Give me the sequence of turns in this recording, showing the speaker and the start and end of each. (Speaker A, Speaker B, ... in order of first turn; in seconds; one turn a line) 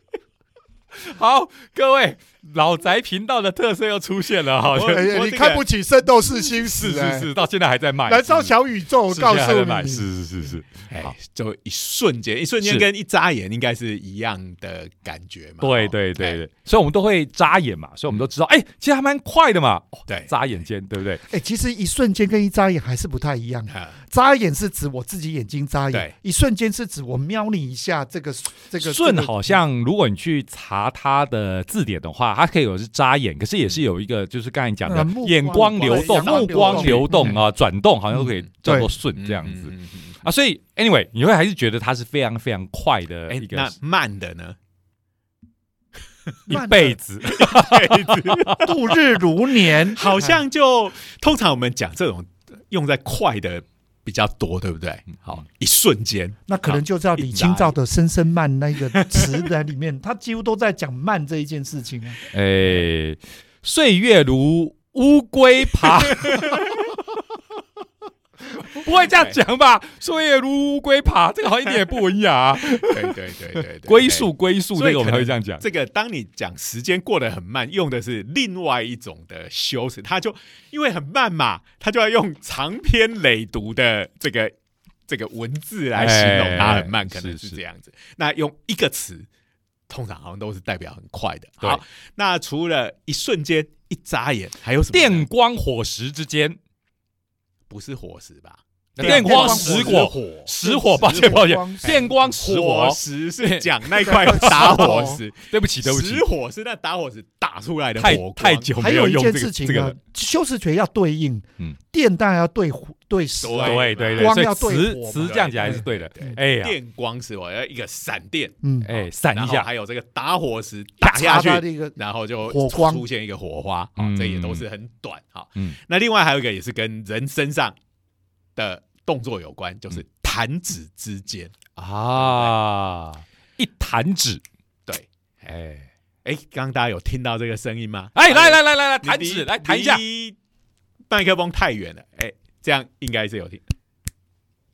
Speaker A: 0.9-5.1
Speaker B: 4.7-5.6
Speaker C: 4.8-7.3
Speaker A: 6.7-8.5
Speaker C: 8.1-10.1
Speaker A: 9.1-11.1
Speaker B: 10.9-16.4
Speaker A: 15.6-21.2
Speaker C: 21.3-29.6
Speaker A: 28.8-43.7
Speaker C: 34.9-37.4
Speaker B: 35.8-37.1
Speaker B: 39.2-40.1
Speaker B: 43.3-44.6
Speaker A: 46.5-48.7
Speaker C: 46.5-47.0
Speaker B: 47.2-48.9
Speaker C: 48.6-50.4
Speaker B: 49.9-56.4
Speaker C: 56.5-62.2
Speaker B: 57.2-57.7
Speaker B: 58.9-59.5
Speaker A: 62.3-66.7
Speaker B: 66.1-66.7
Speaker A: 68.7-75.6
Speaker B: 69.1-69.4
Speaker B: 72.7-84.5
Speaker B: 85.1-89.3
Speaker A: 86.0-87.6
Speaker B: 89.9-95.2
Speaker A: 94.9-96.6
Speaker B: 97.7-100.5
Speaker A: 99.0-106.2
Speaker C: 99.0-102.2
Speaker B: 101.0-108.7
Speaker C: 104.0-105.2
Speaker A: 108.0-110.0
Speaker C: 108.8-116.3
Speaker B: 113.4-114.4
Speaker A: 113.6-116.7
Speaker B: 115.1-127.8
Speaker C: 118.6-118.9
Speaker A: 118.8-119.7
Speaker C: 121.0-123.0
Speaker A: 124.0-124.6
Speaker B: 128.6-131.6
Speaker A: 131.8-134.4
Speaker B: 132.2-132.5
Speaker B: 134.9-135.4
Speaker A: 135.5-135.9
Speaker B: 136.2-140.4
Speaker A: 138.1-140.0
Speaker B: 141.1-143.6